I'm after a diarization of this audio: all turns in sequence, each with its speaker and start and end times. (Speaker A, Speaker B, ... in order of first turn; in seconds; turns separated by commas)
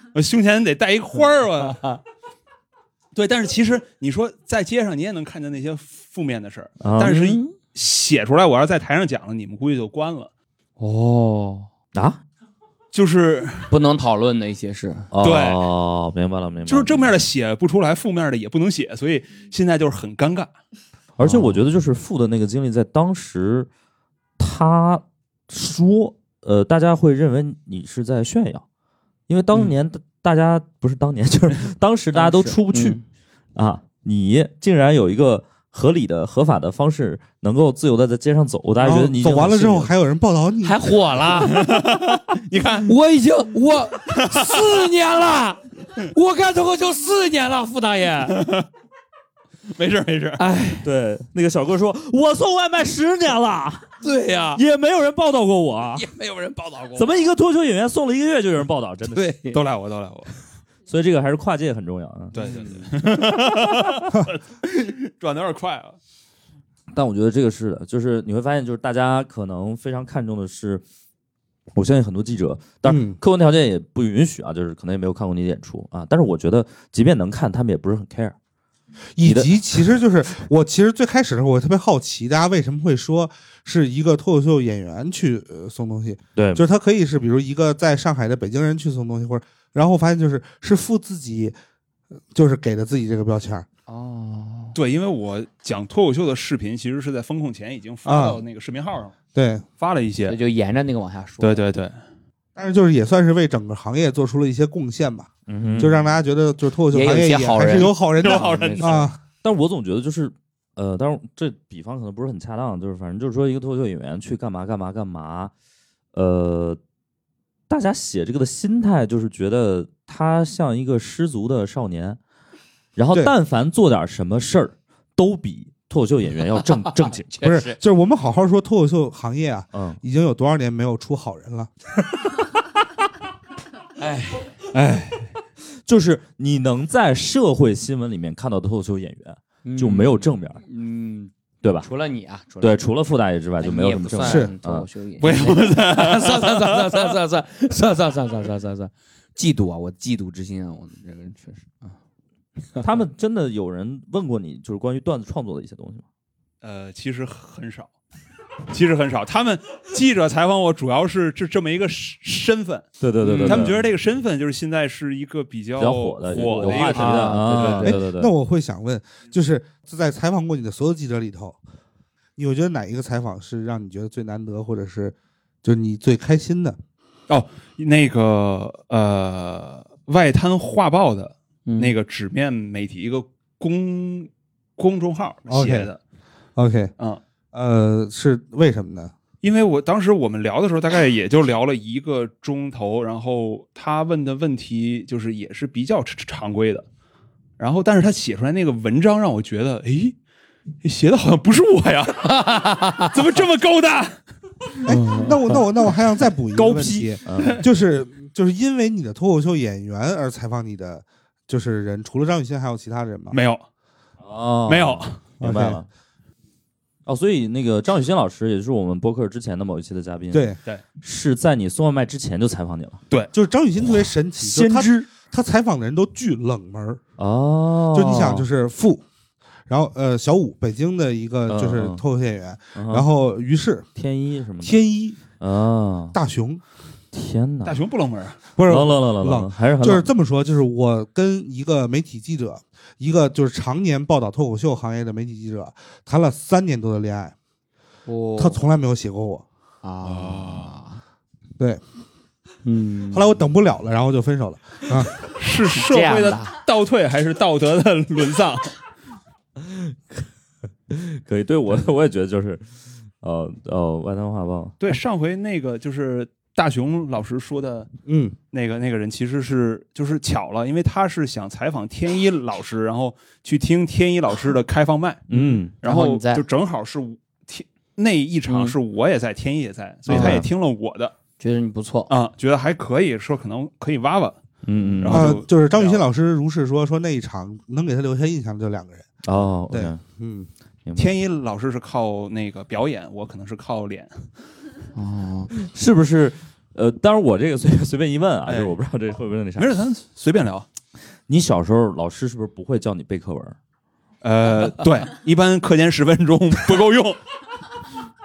Speaker A: 0.1-1.8, Speaker B: 1.7-2.0, Speaker A: 3.1-10.3, Speaker C: 6.8-7.2, Speaker B: 7.0-7.5, Speaker B: 10.8-11.7, Speaker C: 11.9-12.2, Speaker A: 12.9-13.7, Speaker B: 13.7-15.1, Speaker C: 15.1-17.2, Speaker A: 15.2-15.7, Speaker A: 16.7-20.5, Speaker C: 21.2-23.7, Speaker B: 21.2-21.6, Speaker C: 24.4-28.6, Speaker C: 29.3-33.0, Speaker B: 32.1-33.0, Speaker C: 33.5-39.9, Speaker D: 38.8-40.8, Speaker B: 40.6-41.8, Speaker A: 41.5-42.9, Speaker B: 42.9-48.4, Speaker A: 44.1-44.6, Speaker A: 48.3-48.7, Speaker A: 49.7-50.4, Speaker B: 50.4-50.9, Speaker C: 50.8-53.9, Speaker B: 54.0-54.6, Speaker C: 54.6-56.1, Speaker B: 56.0-57.3, Speaker C: 57.0-59.3, Speaker B: 59.1-59.6, Speaker A: 59.5-60.3, Speaker C: 60.9-62.4, Speaker A: 62.3-66.0, Speaker B: 62.4-62.9, Speaker C: 66.9-70.8, Speaker C: 71.7-78.4, Speaker D: 72.8-73.2, Speaker D: 79.2-91.5, Speaker C: 79.2-79.5, Speaker C: 86.4-86.6, Speaker D: 92.3-93.7, Speaker B: 93.9-94.8, Speaker A: 94.8-99.2, Speaker D: 98.0-98.4, Speaker D: 99.3-99.7, Speaker A: 99.8-100.4, Speaker B: 100.3-101.7, Speaker A: 101.4-102.0, Speaker D: 102.6-109.2, Speaker C: 105.5-106.0, Speaker B: 106.9-109.1, Speaker A: 108.2-109.1, Speaker C: 109.4-115.5, Speaker C: 116.1-116.8, Speaker C: 117.7-122.2, Speaker C: 123.0-127.3, Speaker B: 127.1-127.8, Speaker D: 127.4-131.7, Speaker C: 129.7-130.0, Speaker B: 134.0-134.5, Speaker A: 134.7-135.3, Speaker C: 135.9-140.6, Speaker B: 139.6-142.9, Speaker C: 141.6-141.9, Speaker C: 142.6-144.9, Speaker B: 143.6-151.9, Speaker D: 144.2-144.5, Speaker A: 145.2-146.9, Speaker C: 152.8-156.1, Speaker A: 156.6-157.9, Speaker A: 158.7-167.8, Speaker C: 163.0-163.8, Speaker B: 163.2-163.7, Speaker C: 165.8-168.3, Speaker B: 166.3-168.0, Speaker D: 167.8-171.6, Speaker D: 172.4-176.8, Speaker A: 177.3-186.0, Speaker B: 181.7-181.9, Speaker D: 185.5-185.9, Speaker D: 186.6-186.9, Speaker D: 187.5-189.1, Speaker A: 189.4-196.9, Speaker A: 197.6-200.2, Speaker A: 200.8-204.2, Speaker B: 202.3-203.1, Speaker D: 204.8-213.4, Speaker B: 204.9-205.6, Speaker C: 206.6-207.6, Speaker A: 213.3-213.6, Speaker C: 214.2-215.9, Speaker A: 214.7-215.2, Speaker D: 215.4-215.8, Speaker C: 217.1-220.5, Speaker D: 220.3-220.6, Speaker C: 221.0-223.0, Speaker D: 223.3-227.0, Speaker C: 224.4-225.1, Speaker C: 227.2-228.5, Speaker D: 227.9-229.0, Speaker D: 229.7-233.9, Speaker C: 231.5-232.0, Speaker C: 232.8-233.1, Speaker C: 234.0-234.7, Speaker D: 234.6-235.2, Speaker C: 235.4-236.2, Speaker D: 236.1-236.6, Speaker C: 237.1-237.8, Speaker A: 237.7-238.4, Speaker D: 238.6-247.3, Speaker C: 238.7-240.1, Speaker B: 248.1-248.6, Speaker D: 248.4-249.4, Speaker B: 249.8-251.0, Speaker A: 250.1-250.7, Speaker B: 252.7-253.4, Speaker D: 253.1-255.1, Speaker A: 255.2-258.7, Speaker B: 255.7-256.5, Speaker C: 259.6-260.3, Speaker C: 260.9-262.6, Speaker C: 263.2-264.8, Speaker A: 264.8-267.9, Speaker D: 268.1-268.4, Speaker A: 268.5-281.1, Speaker C: 275.3-275.7, Speaker B: 275.3-276.4, Speaker B: 278.5-278.8, Speaker C: 280.1-280.5, Speaker D: 280.1-280.4, Speaker B: 280.1-280.4, Speaker B: 281.4-282.1, Speaker A: 282.1-284.4, Speaker C: 284.6-285.4, Speaker A: 285.0-286.1, Speaker D: 285.1-289.1, Speaker C: 289.2-290.0, Speaker D: 289.7-290.5, Speaker C: 290.9-291.1, Speaker A: 291.0-294.3, Speaker B: 294.9-295.5, Speaker C: 295.6-299.8, Speaker A: 298.5-298.8, Speaker A: 299.6-300.7, Speaker C: 301.3-303.6, Speaker A: 304.2-307.2